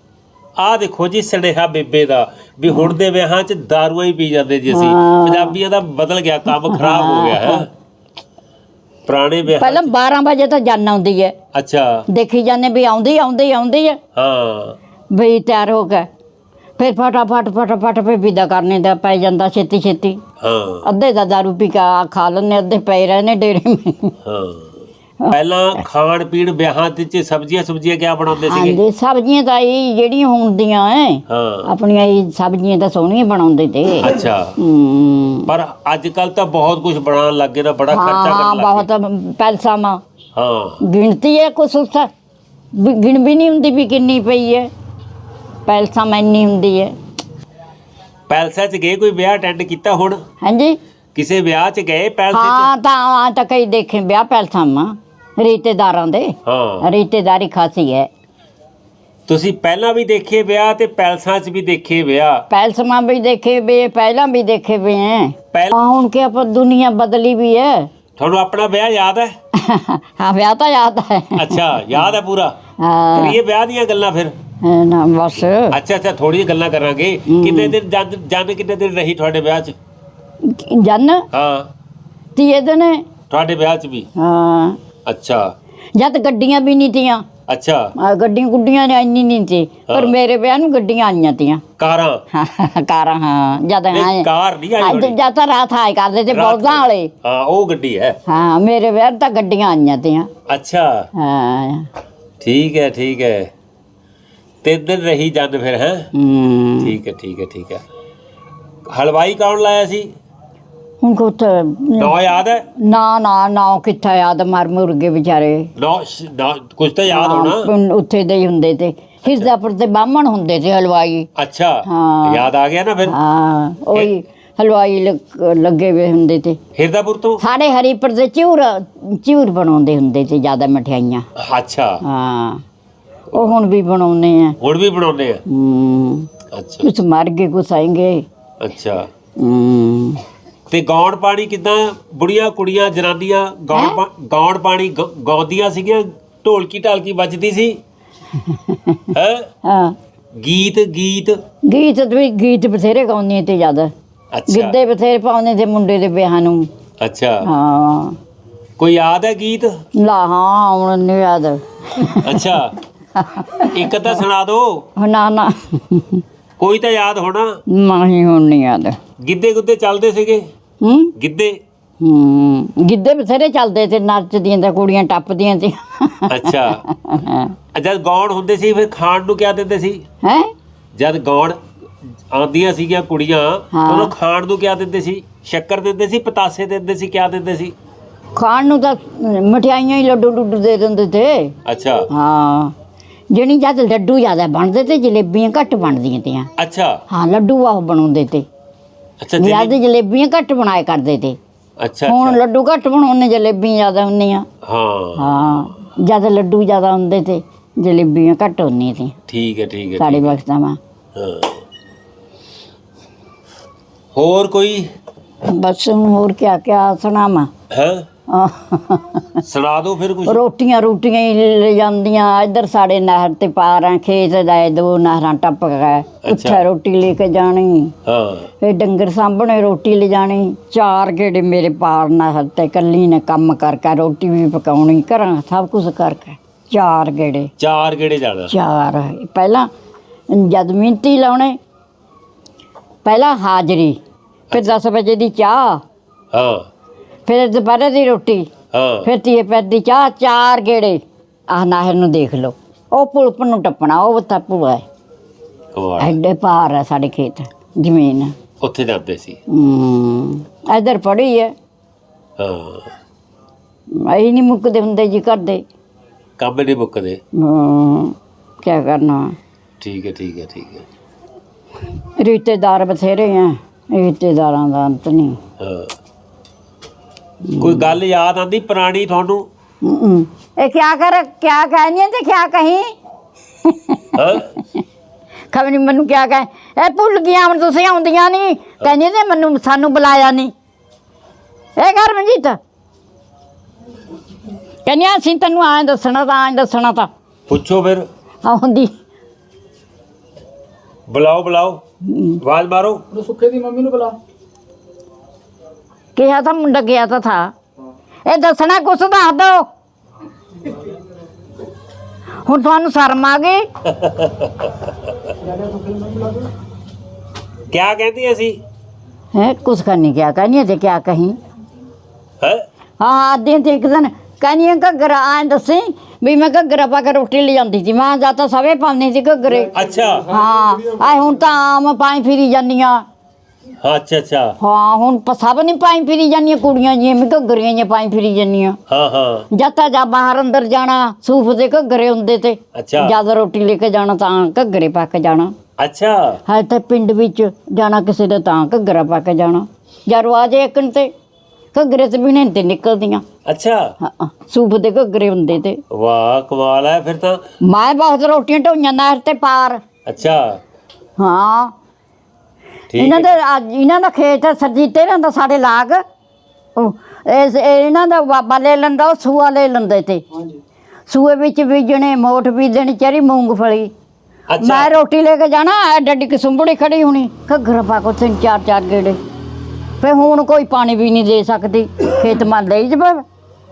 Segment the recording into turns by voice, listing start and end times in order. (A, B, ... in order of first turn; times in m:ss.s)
0:00.6-0:07.7 A
0:04.7-0:05.6 B
0:06.6-0:07.6 B
0:09.1-0:09.9 A
0:09.5-0:11.4 B
0:11.5-0:12.0 A
0:12.1-0:14.0 B
0:14.2-0:14.8 A
0:15.1-0:16.1 B
0:16.8-0:20.2 B
0:20.4-0:20.9 A
0:20.8-0:24.1 B
0:24.2-0:28.8 A
0:28.4-0:35.5 B
0:31.3-0:31.7 A
0:34.0-0:34.6 A
0:35.5-0:38.9 A
0:37.9-0:40.0 B
0:40.4-0:40.8 A
0:40.8-0:42.1 B
0:42.7-0:44.7 B
0:45.7-0:46.9 B
0:48.3-0:50.2 A
0:50.4-0:50.8 B
0:51.2-0:52.7 A
0:52.3-0:58.1 B
0:56.4-0:56.9 A
0:59.3-1:02.4 A
1:02.5-1:07.9 B
1:05.5-1:05.8 A
1:08.2-1:09.4 A
1:09.6-1:12.0 B
1:11.4-1:12.6 A
1:12.8-1:13.4 B
1:13.1-1:14.3 A
1:14.6-1:15.8 B
1:15.7-1:19.8 A
1:17.3-1:17.8 B
1:20.4-1:21.2 B
1:21.3-1:21.7 A
1:22.4-1:23.1 B
1:23.3-1:24.1 A
1:24.2-1:24.8 B
1:25.1-1:25.5 A
1:26.0-1:27.2 B
1:27.5-1:27.9 A
1:28.0-1:31.6 B
1:29.9-1:30.2 A
1:31.8-1:32.2 A
1:32.3-1:34.3 B
1:33.9-1:35.2 A
1:34.8-1:37.1 B
1:36.3-1:38.2 A
1:38.3-1:40.3 B
1:40.5-1:41.1 A
1:41.2-1:41.9 B
1:42.4-1:43.5 A
1:44.6-1:46.1 A
1:46.1-1:47.0 B
1:46.8-1:47.8 A
1:48.9-1:50.1 A
1:51.0-1:52.2 B
1:52.0-1:52.6 A
1:52.8-1:55.7 B
1:55.8-1:57.7 A
1:57.1-2:01.3 B
2:01.4-2:03.2 A
2:01.9-2:02.5 B
2:03.1-2:06.6 B
2:06.8-2:07.4 A
2:07.4-2:11.3 B
2:11.4-2:12.0 A
2:12.0-2:12.6 B
2:13.3-2:14.6 B
2:14.6-2:15.4 A
2:15.5-2:16.3 B
2:16.5-2:16.9 A
2:16.8-2:18.2 B
2:18.6-2:19.1 A
2:19.4-2:20.2 B
2:20.7-2:27.8 A
2:23.7-2:24.0 B
2:28.4-2:29.1 B
2:29.1-2:29.5 A
2:29.6-2:30.0 B
2:30.4-2:31.4 A
2:31.7-2:33.9 B
2:34.3-2:34.8 A
2:34.5-2:36.7 B
2:37.0-2:37.5 A
2:37.4-2:38.2 B
2:38.8-2:39.7 A
2:40.0-2:42.6 B
2:42.2-2:42.8 A
2:43.2-2:44.2 B
2:43.7-2:44.8 A
2:45.0-2:46.2 B
2:46.6-2:47.6 A
2:47.7-2:49.0 B
2:49.2-2:50.5 A
2:50.8-2:51.1 B
2:51.2-2:51.6 A
2:52.0-2:57.6 B
2:56.3-2:56.8 A
2:57.7-3:00.0 A
3:00.2-3:00.5 B
3:01.0-3:01.6 A
3:02.3-3:07.7 A
3:03.7-3:04.1 B
3:08.4-3:11.5 B
3:11.7-3:12.1 A
3:12.1-3:12.7 B
3:13.3-3:16.5 B
3:16.6-3:17.0 A
3:17.1-3:18.5 B
3:19.2-3:19.8 A
3:19.4-3:21.4 B
3:21.8-3:22.4 A
3:22.1-3:24.5 B
3:24.6-3:25.7 A
3:25.2-3:29.2 B
3:29.3-3:30.4 A
3:30.0-3:30.8 B
3:31.2-3:31.6 A
3:34.1-3:34.9 A
3:35.4-3:37.5 B
3:37.7-3:38.0 A
3:38.3-3:39.4 B
3:39.4-3:40.4 A
3:40.3-3:47.9 B
3:46.2-3:46.6 A
3:48.1-3:48.5 A
3:48.6-3:57.5 B
3:57.6-3:58.5 A
3:58.5-3:59.7 B
4:00.3-4:01.6 B
4:03.0-4:04.0 B
4:04.5-4:04.8 A
4:04.5-4:05.8 B
4:06.3-4:06.7 A
4:07.3-4:08.5 B
4:08.7-4:09.1 A
4:09.0-4:11.0 B
4:11.5-4:14.8 B
4:15.7-4:16.2 A
4:16.0-4:18.3 B
4:18.6-4:19.4 A
4:19.5-4:21.5 B
4:22.4-4:22.9 A
4:24.0-4:25.6 B
4:26.4-4:27.2 A
4:27.4-4:29.4 B
4:29.8-4:30.8 A
4:31.9-4:35.4 B
4:35.6-4:35.9 A
4:37.4-4:37.9 B
4:37.6-4:39.4 A
4:39.8-4:42.9 B
4:43.6-4:44.8 B
4:44.2-4:44.5 A
4:45.5-4:50.5 B
4:51.8-4:52.6 B
4:54.9-4:57.1 B
4:57.5-4:58.1 A
4:58.4-4:58.9 B
5:01.1-5:01.8 A
5:02.1-5:02.4 B
5:02.4-5:03.0 A
5:03.1-5:04.2 C
5:06.2-5:07.5 B
5:08.3-5:09.7 B
5:12.4-5:13.6 B
5:13.9-5:14.9 A
5:15.7-5:16.4 C
5:17.7-5:18.6 A
5:19.3-5:21.4 B
5:23.0-5:33.0 B
5:29.7-5:30.4 A
5:33.8-5:34.6 A
5:34.6-5:38.8 B
5:38.9-5:39.5 A
5:39.5-5:45.5 B
5:42.8-5:43.2 A
5:45.8-5:46.4 A
5:46.5-5:51.1 B
5:51.7-5:53.2 B
5:53.4-5:54.0 A
5:54.0-5:55.8 B
5:55.9-5:57.4 A
5:57.6-5:59.8 B
6:00.1-6:00.6 A
6:01.2-6:01.7 B
6:02.9-6:03.3 A
6:02.9-6:06.0 B
6:06.8-6:10.2 B
6:10.3-6:10.6 C
6:11.1-6:13.9 B
6:14.5-6:14.9 A
6:14.6-6:19.2 B
6:20.0-6:23.2 B